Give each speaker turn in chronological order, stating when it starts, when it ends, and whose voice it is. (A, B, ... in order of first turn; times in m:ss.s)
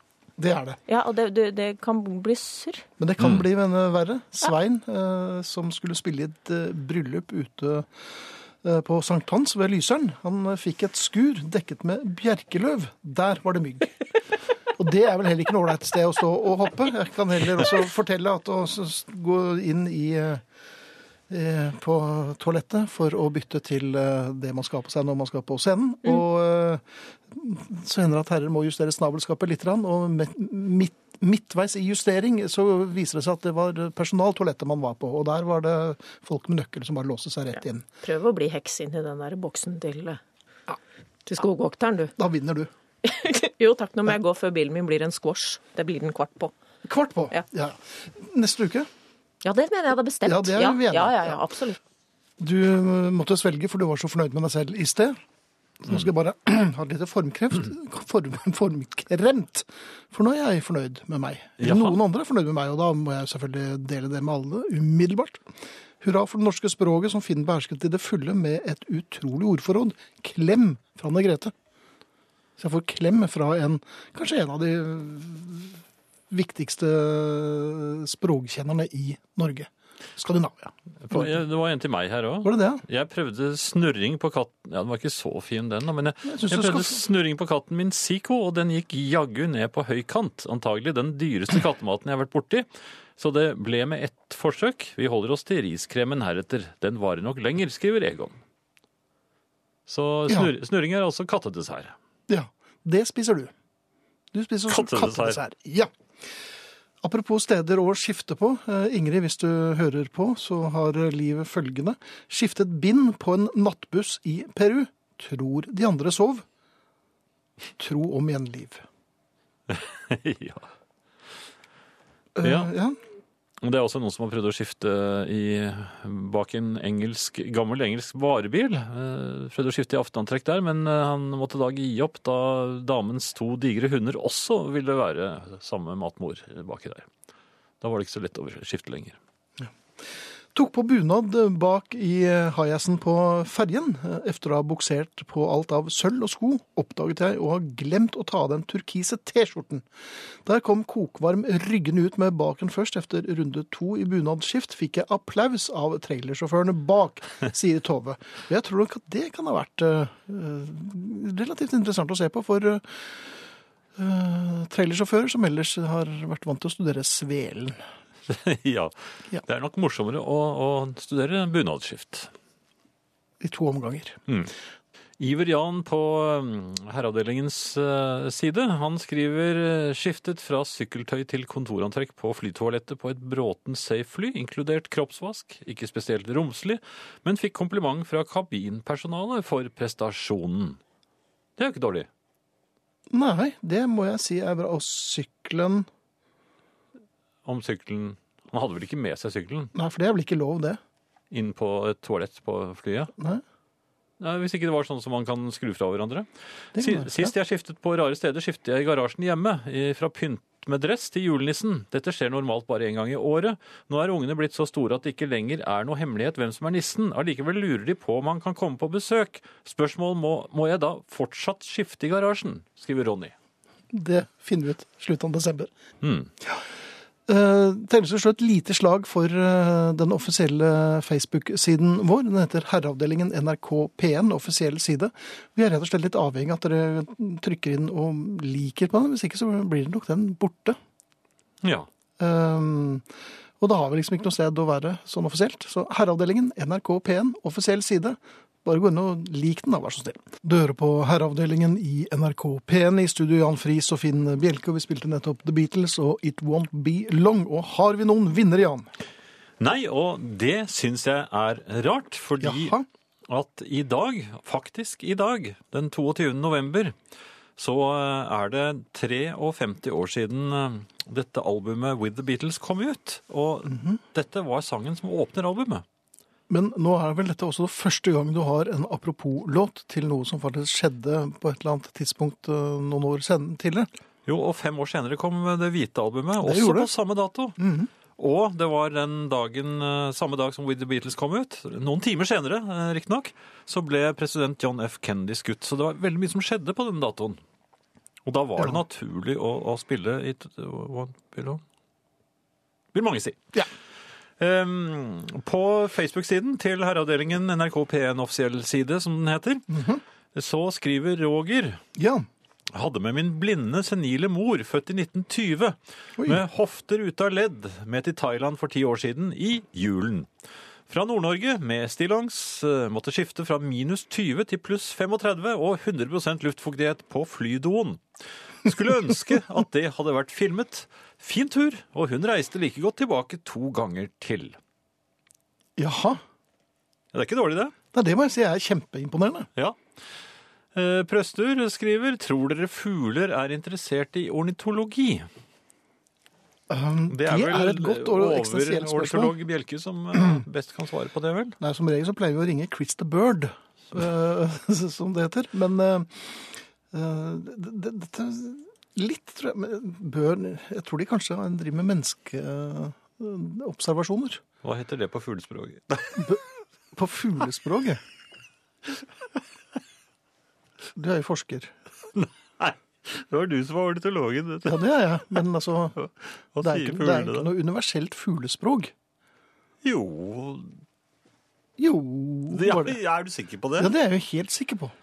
0:00.4-0:00.8 A
0:00.9-0:02.8 B
0:03.0-0:07.9 A
0:08.6-0:14.0 A
0:14.7-0:20.4 A
0:21.3-0:37.8 A
0:38.0-0:40.2 B
0:41.2-0:42.1 B
0:42.2-0:42.7 A
0:43.0-0:46.5 B
0:46.8-0:48.9 A
0:49.4-0:51.8 B
0:50.2-0:51.4 A
0:52.4-0:55.2 A
0:55.8-1:05.4 A
1:01.6-1:01.9 C
1:06.0-1:11.5 A
1:12.6-1:15.8 A
1:16.3-1:21.4 A
1:21.0-1:38.4 C
1:22.4-1:22.8 A
1:26.2-1:27.0 A
1:39.9-1:41.9 C
1:42.3-1:43.5 A
1:44.3-1:45.9 A
1:44.7-1:45.4 C
1:47.0-1:56.4 A
1:57.8-1:58.8 A
1:59.7-2:00.7 C
2:02.4-2:03.0 A
2:02.4-2:02.7 C
2:03.6-2:17.1 C
2:17.8-2:19.2 C
2:20.5-2:29.8 A
2:30.4-2:42.8 A
2:44.0-2:47.8 A
2:48.3-2:52.3 C
2:53.4-2:54.2 A
2:55.2-3:10.8 C
3:11.6-3:12.1 C
3:13.1-3:15.9 A
3:17.4-3:19.7 C
3:19.7-3:20.8 A
3:21.3-3:23.1 C
3:23.2-3:23.4 A
3:24.2-3:43.3 C
3:26.7-3:27.3 A
3:43.9-3:45.7 A
3:46.0-3:46.3 C
3:47.3-4:00.8 A
4:01.6-4:01.9 C
4:02.2-4:03.0 A
4:03.6-4:18.9 A
4:19.6-4:22.7 C
4:22.4-4:22.8 A
4:23.3-4:27.0 C
4:27.6-4:35.8 C
4:33.7-4:34.0 A
4:36.5-4:43.9 A
4:44.2-4:47.6 C
4:46.4-4:46.9 A
4:47.6-4:47.9 A
4:48.2-4:57.4 C
4:58.2-5:01.6 C
5:02.9-5:03.5 C
5:04.4-5:09.7 C
5:09.7-5:10.0 A
5:10.3-5:11.8 C
5:12.0-5:12.2 A
5:12.7-5:20.3 C
5:20.9-5:28.0 C
5:28.6-5:34.6 C
5:35.8-5:36.2 A
5:37.1-5:37.7 C
5:37.9-5:39.5 A
5:40.7-5:45.3 C
5:46.7-5:49.3 A
5:47.1-5:51.6 C
5:51.6-6:04.4 A
6:04.6-6:06.3 C
6:06.2-6:06.4 A
6:06.9-6:08.0 A
6:11.0-6:11.7 A
6:12.1-6:14.8 C
6:14.6-6:16.0 A
6:16.0-6:17.5 C
6:16.6-6:18.9 A
6:19.8-6:20.7 C
6:21.8-6:23.0 A
6:22.5-6:23.9 C
6:23.8-6:24.9 A